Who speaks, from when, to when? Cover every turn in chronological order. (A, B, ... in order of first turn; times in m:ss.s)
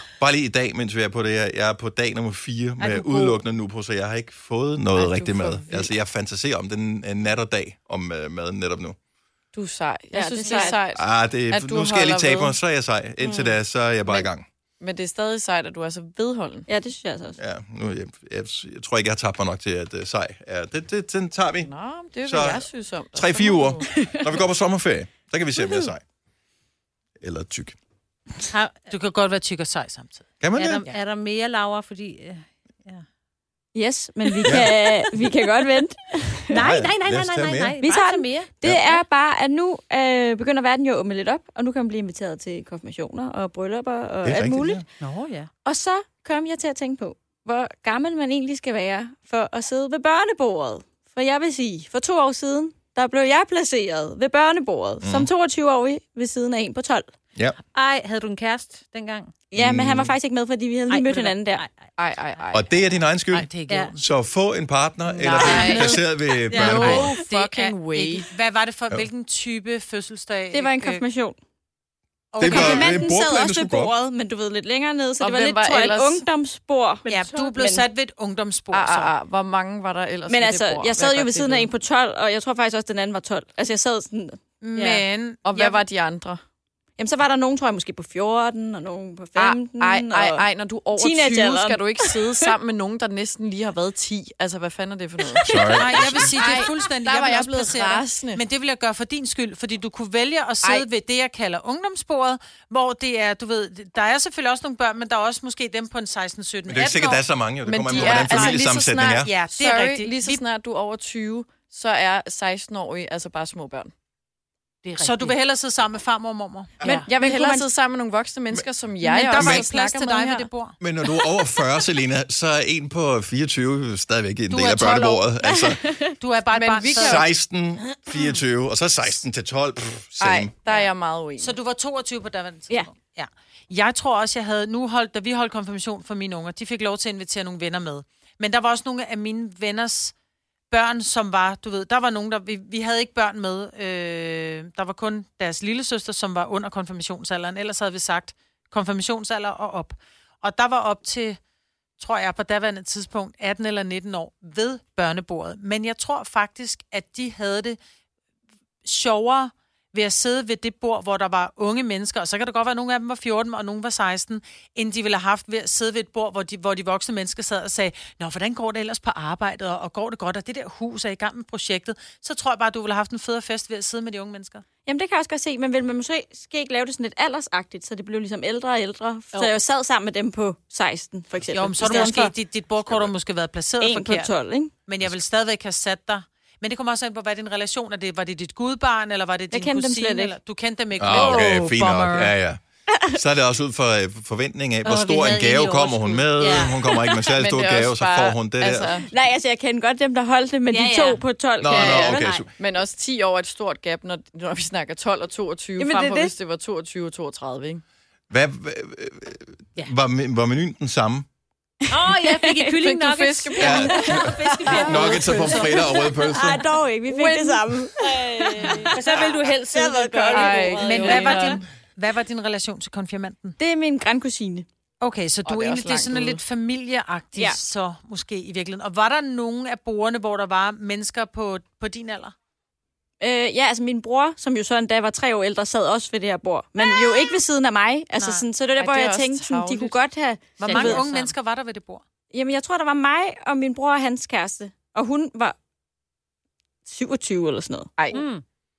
0:00.2-0:09.0 A
0:05.0-0:05.9 B
0:09.5-0:12.6 B
0:10.1-0:10.8 C
0:11.0-0:14.5 A
0:14.8-0:16.7 B
0:16.7-0:17.4 C
0:17.4-0:21.7 A
0:21.6-0:24.1 B
0:22.2-0:22.6 A
0:23.2-0:26.0 A
0:27.2-0:27.8 A
0:28.5-0:28.9 D
0:28.9-0:30.3 E
0:30.4-0:30.9 A
0:30.6-0:33.0 D
0:33.8-0:36.7 C
0:34.3-0:34.7 D
0:34.5-0:34.7 A
0:36.5-0:38.5 D
0:36.6-0:37.8 A
0:37.8-0:44.8 C
0:38.6-0:39.0 A
0:44.2-0:44.9 A
0:45.0-0:45.5 D
0:45.6-0:57.1 C
0:55.0-0:55.3 A
0:57.7-0:59.4 D
0:59.5-1:01.6 C
0:59.6-1:00.2 A
1:00.9-1:01.9 D
1:02.0-1:02.7 B
1:02.5-1:07.2 A
1:03.3-1:04.0 E
1:03.7-1:04.0 D
1:05.2-1:05.9 D
1:05.2-1:08.3 B
1:05.2-1:06.0 E
1:06.5-1:07.1 D
1:06.8-1:11.0 E
1:10.5-1:11.4 C
1:12.3-1:13.1 E
1:12.4-1:13.9 A
1:12.4-1:17.8 C
1:15.2-1:16.2 B
1:17.1-1:19.1 E
1:17.1-1:17.6 D
1:18.7-1:21.7 B
1:20.3-1:24.4 C
1:24.6-1:25.8 E
1:24.8-1:25.0 D
1:25.4-1:26.4 B
1:27.0-1:32.5 C
1:29.4-1:38.4 B
1:35.4-1:36.4 A
1:35.8-1:47.2 E
1:46.7-1:49.3 A
1:47.6-1:53.9 B
1:47.9-1:48.6 E
1:49.2-1:50.4 E
1:54.8-1:55.4 D
1:55.0-1:56.8 E
1:56.8-1:57.7 C
1:56.8-2:00.5 B
1:59.0-2:00.8 E
1:59.4-1:59.6 A
2:00.8-2:05.8 A
2:04.5-2:05.3 E
2:05.5-2:06.2 C
2:06.2-2:07.3 E
2:06.5-2:07.3 B
2:06.9-2:10.5 A
2:10.2-2:11.6 B
2:11.4-2:20.1 E
2:20.7-2:31.4 E
2:32.0-2:37.8 E
2:38.8-2:54.6 E
2:54.9-3:02.3 C
3:01.5-3:04.3 E
3:02.8-3:03.1 A
3:03.8-3:04.7 C
3:04.9-3:12.3 E
3:09.5-3:10.4 C
3:11.0-3:12.6 A
3:11.4-3:11.9 D
3:12.9-3:13.2 C
3:13.1-3:19.0 A
3:14.8-3:17.1 D
3:17.3-3:19.1 B
3:19.0-3:22.4 C
3:20.7-3:21.2 D
3:21.6-3:22.5 A
3:21.7-3:27.8 B
3:25.8-3:26.3 C
3:28.3-3:31.3 A
3:31.9-3:35.9 D
3:32.2-3:32.7 C
3:32.7-3:35.6 B
3:33.6-3:34.2 A
3:33.7-3:41.3 C
3:34.7-3:36.6 A
3:37.1-3:38.0 B
3:38.3-3:41.6 D
3:38.6-3:38.9 B
3:40.3-3:41.6 B
3:40.8-3:43.6 E
3:43.6-3:44.7 C
3:45.0-3:52.4 E
3:45.4-3:46.4 B
3:53.2-4:01.0 C
3:58.2-3:58.4 E
3:58.8-4:00.0 B
4:00.6-4:02.0 E
4:00.6-4:01.3 D
4:02.3-4:05.6 C
4:06.8-4:07.9 C
4:08.0-4:08.2 B
4:08.1-4:08.4 D